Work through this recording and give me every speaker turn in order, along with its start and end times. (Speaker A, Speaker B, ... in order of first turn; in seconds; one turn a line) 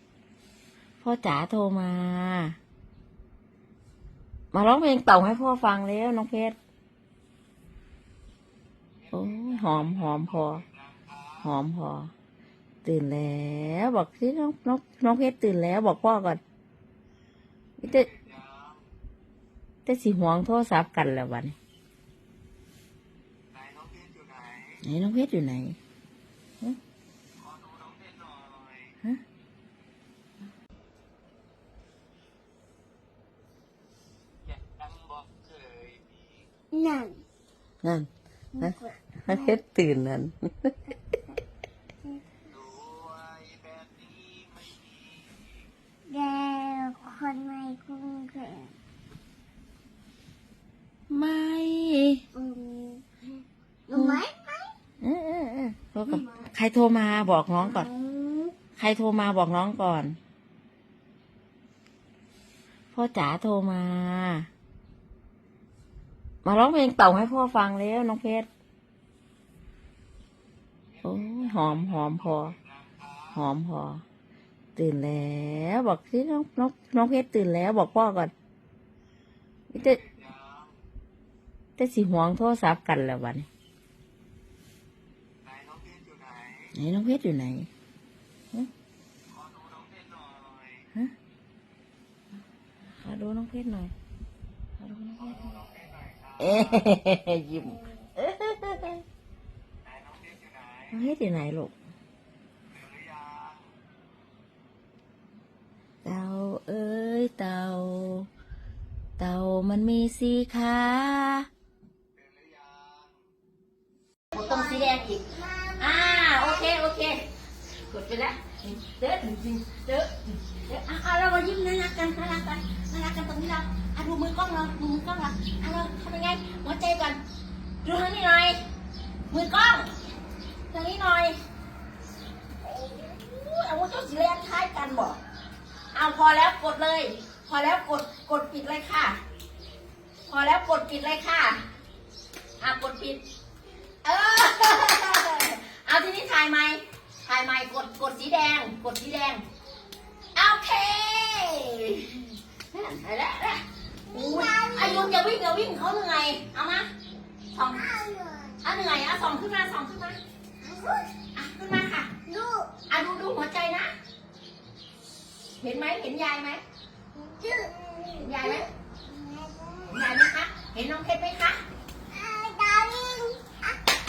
Speaker A: 1.0-2.6
Speaker A: 4.5-6.6
Speaker A: 9.1-10.7
Speaker A: 11.3-12.1
Speaker A: 12.8-16.4
Speaker A: 17.8-18.1
Speaker B: 18.3-18.6
Speaker A: 19.9-21.6
Speaker B: 23.5-24.7
Speaker A: 24.8-25.8
Speaker B: 27.4-28.7
Speaker B: 35.6-35.9
Speaker C: 36.7-37.2
Speaker A: 37.8-38.1
Speaker C: 38.5-39.6
Speaker A: 38.6-40.7
Speaker C: 42.1-42.4
Speaker B: 42.6-44.9
Speaker C: 46.1-48.7
Speaker A: 51.1-52.2
Speaker C: 52.3-53.2
Speaker C: 53.9-54.7
Speaker A: 53.9-54.2
Speaker A: 55.0-57.9
Speaker C: 56.2-56.5
Speaker C: 57.6-58.5
Speaker A: 58.8-60.2
Speaker A: 62.9-64.5
Speaker A: 66.4-68.5
Speaker A: 71.0-72.6
Speaker A: 73.3-74.0
Speaker A: 74.8-78.3
Speaker A: 79.7-80.0
Speaker B: 80.2-80.5
Speaker A: 81.8-83.5
Speaker B: 85.5-86.6
Speaker A: 86.7-87.7
Speaker B: 89.3-90.6
Speaker A: 93.0-93.9
Speaker A: 94.8-95.6
Speaker B: 95.8-96.2
Speaker A: 96.4-99.0
Speaker B: 99.9-100.8
Speaker A: 100.9-101.7
Speaker B: 102.9-103.5
Speaker A: 106.0-108.3
Speaker A: 109.2-111.5
Speaker B: 112.5-112.8
Speaker C: 114.3-116.8
Speaker A: 114.3-117.3
Speaker A: 117.8-127.2
Speaker A: 127.8-128.6
Speaker A: 129.3-129.9
Speaker A: 130.7-131.4
Speaker A: 132.6-135.2
Speaker A: 135.9-139.2
Speaker A: 140.3-141.6
Speaker A: 142.6-143.2
Speaker A: 144.0-149.4
Speaker A: 150.3-156.9
Speaker C: 154.1-155.2
Speaker A: 157.5-157.9
Speaker C: 157.7-158.6
Speaker A: 158.6-160.2
Speaker C: 160.6-161.1
Speaker A: 161.3-162.1
Speaker C: 162.2-162.8
Speaker A: 162.9-163.9
Speaker A: 165.6-166.6
Speaker C: 167.3-170.0
Speaker A: 167.4-168.7
Speaker A: 169.9-171.6
Speaker C: 172.1-173.8